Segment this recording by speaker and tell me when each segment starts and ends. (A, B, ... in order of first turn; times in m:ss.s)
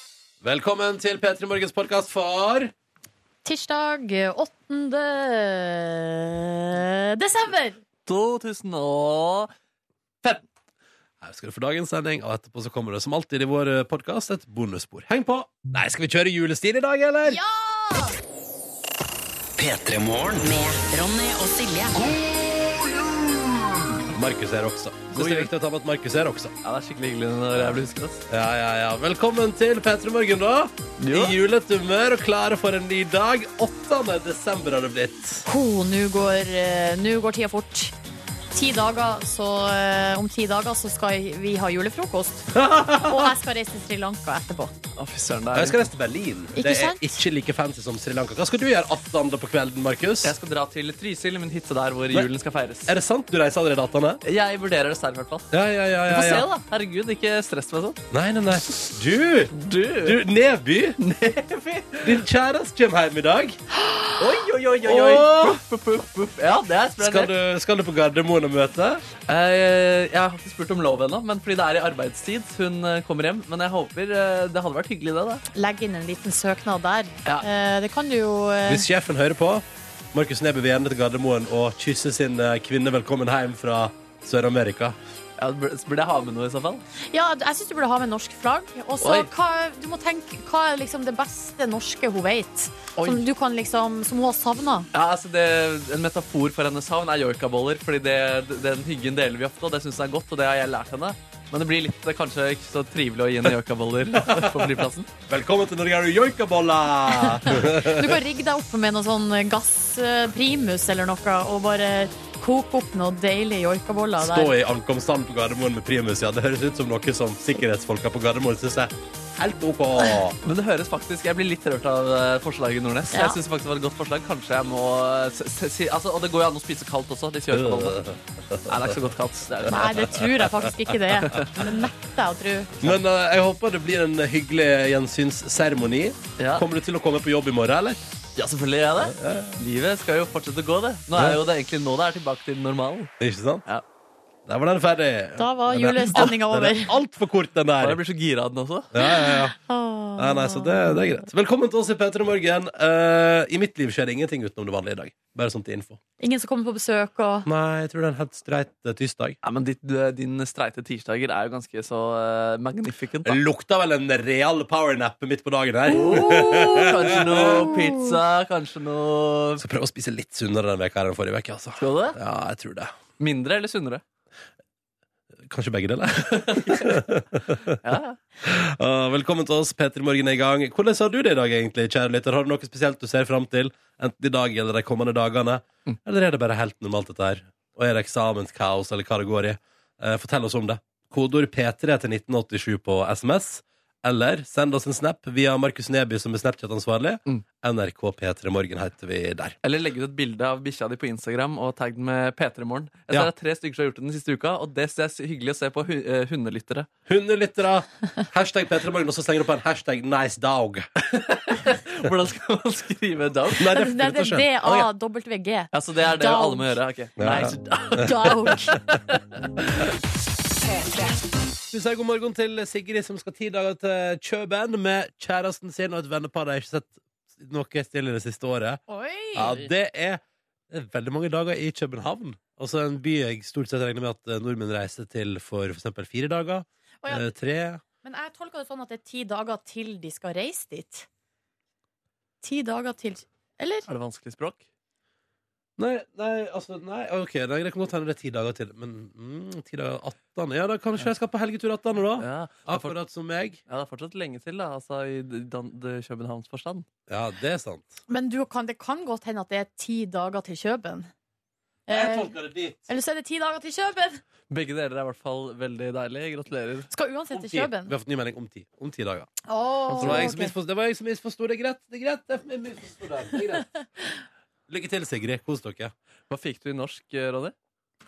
0:00.4-0:02.7 A
0:03.4-0:07.8 B
0:08.0-0:09.5 C
0:11.2-0:17.4 A
0:17.2-0:18.2 B
0:19.6-0:22.2 D
0:24.1-0:26.5 A
0:25.1-0:25.5 C
0:26.6-0:28.2 C
0:28.3-0:35.4 A
0:31.0-0:31.4 C
0:35.5-0:37.9 B
0:38.5-0:42.5 B
0:42.5-0:43.3 A
0:43.0-0:44.7 B
0:45.0-0:45.8 C
0:45.5-0:50.3 A
0:46.5-0:47.2 B
0:50.2-0:52.9 C
0:52.8-0:54.2 A
0:54.2-0:55.5 C
0:55.5-0:56.5 A
0:56.1-0:58.0 C
0:58.1-1:01.0 A
0:59.5-1:00.2 C
1:01.0-1:02.2 C
1:02.0-1:03.6 A
1:04.2-1:07.3 C
1:04.8-1:05.6 A
1:07.0-1:09.1 A
1:09.3-1:15.4 C
1:15.5-1:18.8 B
1:18.6-1:25.0 A
1:25.4-1:26.8 C
1:27.1-1:34.9 B
1:29.0-1:29.3 C
1:33.0-1:33.2 C
1:34.9-1:45.1 C
1:44.2-1:44.7 A
1:45.3-1:48.2 A
1:47.1-1:54.5 B
1:54.2-2:00.4 A
2:00.4-2:08.0 C
2:03.1-2:03.4 B
2:07.5-2:09.0 A
2:08.7-2:10.1 C
2:09.6-2:10.4 A
2:09.7-2:12.7 B
2:12.8-2:18.0 A
2:16.4-2:16.6 C
2:18.4-2:23.1 C
2:19.0-2:19.6 A
2:21.1-2:21.4 A
2:23.2-2:23.6 A
2:24.4-2:28.0 A
2:25.4-2:27.0 B
2:27.8-2:28.9 C
2:28.9-2:29.5 A
2:29.0-2:31.0 B
2:30.2-2:36.0 A
2:36.2-2:37.5 B
2:37.4-2:39.4 A
2:39.4-2:43.4 C
2:43.2-2:47.7 A
2:45.9-2:49.6 C
2:46.0-2:46.9 B
2:49.6-2:53.0 A
2:51.8-2:52.2 C
2:53.2-2:54.0 C
2:55.4-2:57.8 A
2:56.6-2:56.9 C
2:57.8-2:58.2 C
2:58.4-3:19.6 A
3:19.6-3:26.9 C
3:27.1-3:30.9 A
3:31.0-3:33.7 C
3:33.6-3:34.9 A
3:33.7-3:36.7 B
3:35.7-3:39.9 C
3:37.2-3:38.1 A
3:38.0-3:38.8 B
3:41.7-3:48.8 A
3:48.9-3:49.6 B
3:49.3-3:57.8 A
3:57.0-3:57.3 B
3:58.0-4:01.1 B
4:02.4-4:03.8 B
4:03.9-4:04.6 C
4:05.8-4:13.6 A
4:12.2-4:12.9 C
4:13.7-4:16.8 C
4:17.1-4:18.0 A
4:18.1-4:21.1 B
4:21.9-4:22.3 B
4:21.9-4:22.8 A
4:22.8-4:24.2 B
4:24.5-4:26.9 C
4:26.9-4:27.9 B
4:27.3-4:29.3 A
4:29.4-4:30.5 B
4:29.9-4:30.3 C
4:30.0-4:33.7 A
4:34.7-4:35.9 A
4:36.3-4:37.5 C